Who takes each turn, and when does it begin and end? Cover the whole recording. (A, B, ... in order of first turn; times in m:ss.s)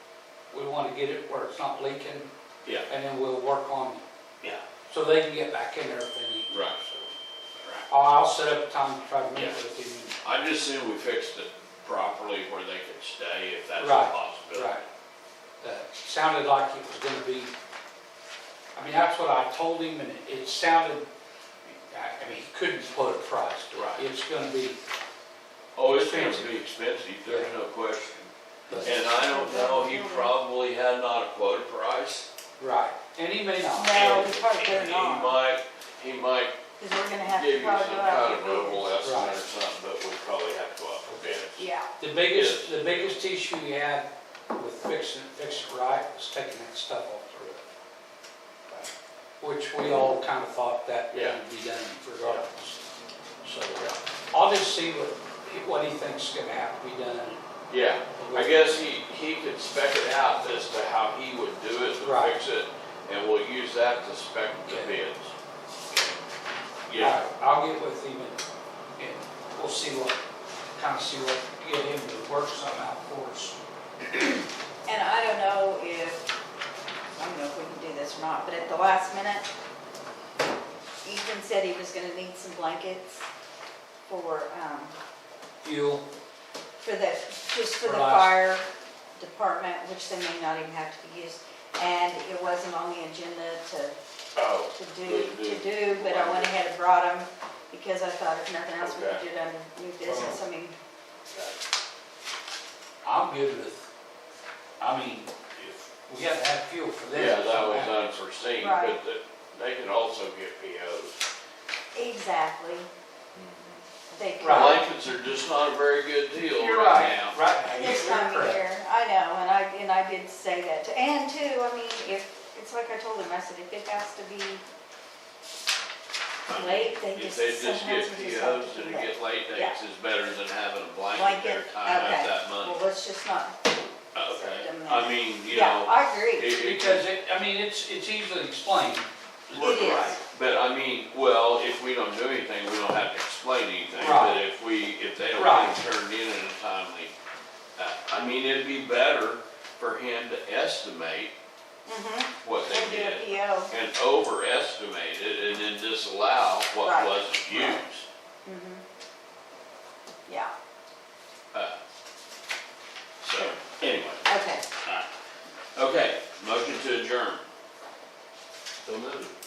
0:00.5-0:02.3 A
0:02.9-0:04.0 A
0:04.9-0:06.5 A
0:06.5-0:07.9 B
0:07.9-0:10.2 A
0:10.2-0:14.8 B
0:13.8-0:14.8 A
0:15.6-0:17.5 A
0:18.7-0:21.1 A
0:21.7-0:24.8 A
0:23.7-0:24.0 B
0:25.8-0:32.3 B
0:25.8-0:26.5 A
0:28.7-0:30.3 C
0:32.6-0:34.3 A
0:33.7-0:35.4 C
0:34.0-0:36.6 B
0:36.8-0:39.0 C
0:37.2-0:41.7 B
0:39.0-0:39.4 A
0:41.6-0:41.9 C
0:42.0-0:47.6 A
0:42.3-0:42.8 B
0:49.4-0:52.8 A
0:51.1-0:51.4 B
0:53.4-0:53.8 A
0:54.3-0:57.4 A
0:57.7-1:05.3 B
0:58.2-0:58.9 A
1:02.0-1:02.3 A
1:04.7-1:05.0 A
1:06.9-1:07.2 B
1:07.0-1:08.4 A
1:09.0-1:10.2 A
1:10.7-1:13.6 A
1:14.9-1:16.3 C
1:17.2-1:19.5 C
1:21.0-1:23.3 C
1:24.0-1:25.0 C
1:25.6-1:26.0 A
1:26.8-1:34.0 C
1:27.8-1:28.4 A
1:34.4-1:36.6 B
1:34.7-1:40.8 C
1:38.8-1:39.2 B
1:40.0-1:40.4 A
1:41.3-1:41.6 B
1:43.0-1:43.9 A
1:44.8-1:45.4 A
1:46.0-1:48.2 A
1:47.1-1:51.2 B
1:48.6-1:49.0 C
1:51.9-1:52.9 C
1:54.1-1:54.9 C
1:54.4-1:54.8 A
1:54.4-1:57.4 B
1:56.5-1:58.6 A
1:57.7-2:04.6 C
2:06.5-2:12.8 B
2:06.5-2:09.8 C
2:11.1-2:16.6 C
2:14.2-2:17.0 B
2:16.6-2:20.2 A
2:19.5-2:27.1 B
2:19.6-2:20.2 C
2:24.0-2:24.4 A
2:25.4-2:25.8 A
2:27.8-2:31.3 B
2:31.9-2:33.7 C
2:32.4-2:38.0 B
2:36.8-2:37.8 C
2:38.4-2:38.8 C
2:40.3-2:40.5 C
2:43.2-2:44.3 B
2:44.2-2:44.6 C
2:45.8-2:47.4 B
2:48.8-2:49.3 B